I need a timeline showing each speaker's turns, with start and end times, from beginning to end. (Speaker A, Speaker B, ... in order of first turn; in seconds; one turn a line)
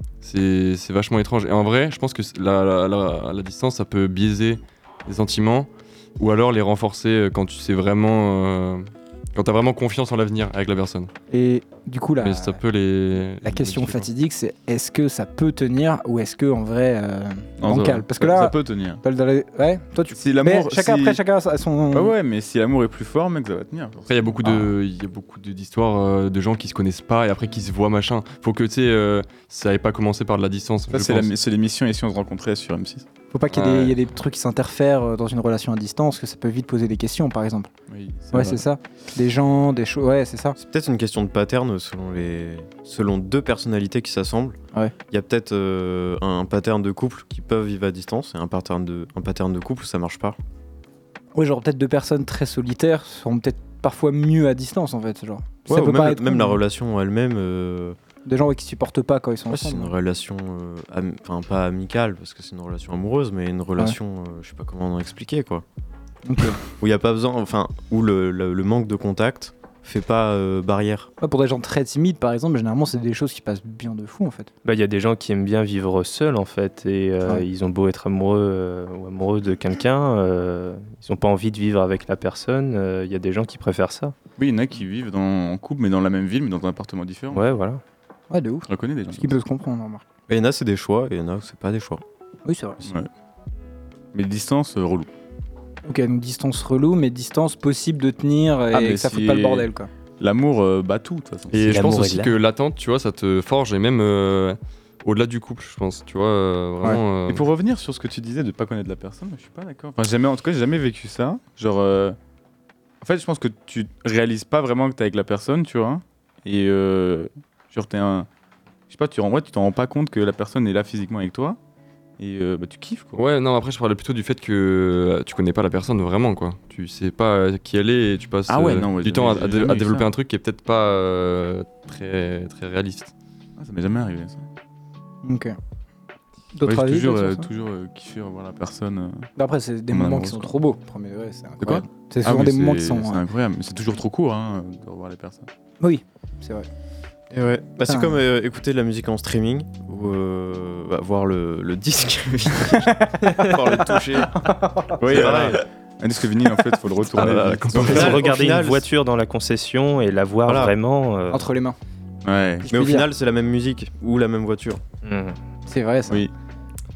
Speaker A: 0.2-11.1
Speaker B: 11.3-12.6
Speaker A: 12.2-14.1
Speaker B: 13.4-22.1
Speaker C: 17.6-19.0
Speaker C: 20.1-21.2
Speaker C: 21.9-24.7
Speaker A: 24.1-31.3
Speaker C: 30.9-33.1
Speaker B: 33.3-37.7
Speaker A: 33.6-33.8
Speaker C: 37.9-38.6
Speaker B: 38.3-40.6
Speaker D: 40.6-44.6
Speaker D: 45.1-50.4
Speaker B: 51.3-56.6
Speaker D: 55.7-58.0
Speaker B: 58.2-59.9
Speaker D: 59.5-65.6
Speaker B: 66.2-66.6
Speaker D: 66.8-71.1
Speaker B: 71.2-74.5
Speaker E: 74.6-84.1
Speaker C: 84.4-87.4
Speaker E: 87.3-87.8
Speaker B: 88.3-90.0
Speaker C: 88.7-89.3
Speaker D: 90.3-92.0
Speaker B: 92.5-92.9
Speaker C: 92.8-93.1
Speaker C: 94.1-95.1
Speaker B: 95.8-99.9
Speaker C: 98.7-101.8
Speaker A: 101.5-107.5
Speaker E: 101.6-102.3
Speaker C: 107.3-112.2
Speaker C: 113.0-118.3
Speaker C: 118.9-121.6
Speaker C: 122.2-123.2
Speaker A: 123.2-133.1
Speaker C: 128.5-130.1
Speaker C: 133.6-134.5
Speaker B: 135.2-135.6
Speaker B: 136.5-137.5
Speaker C: 136.6-139.3
Speaker B: 139.4-143.2
Speaker C: 139.9-140.5
Speaker C: 141.6-145.5
Speaker B: 145.8-146.7
Speaker D: 147.3-154.3
Speaker B: 147.9-148.2
Speaker B: 152.9-155.0
Speaker C: 155.0-158.2
Speaker D: 155.1-155.6
Speaker A: 157.1-158.2
Speaker E: 157.7-161.4
Speaker D: 157.8-158.9
Speaker D: 160.4-160.7
Speaker B: 161.3-161.8
Speaker C: 162.2-162.7
Speaker B: 162.6-163.1
Speaker D: 162.7-164.8
Speaker E: 165.0-165.4
Speaker B: 165.7-166.2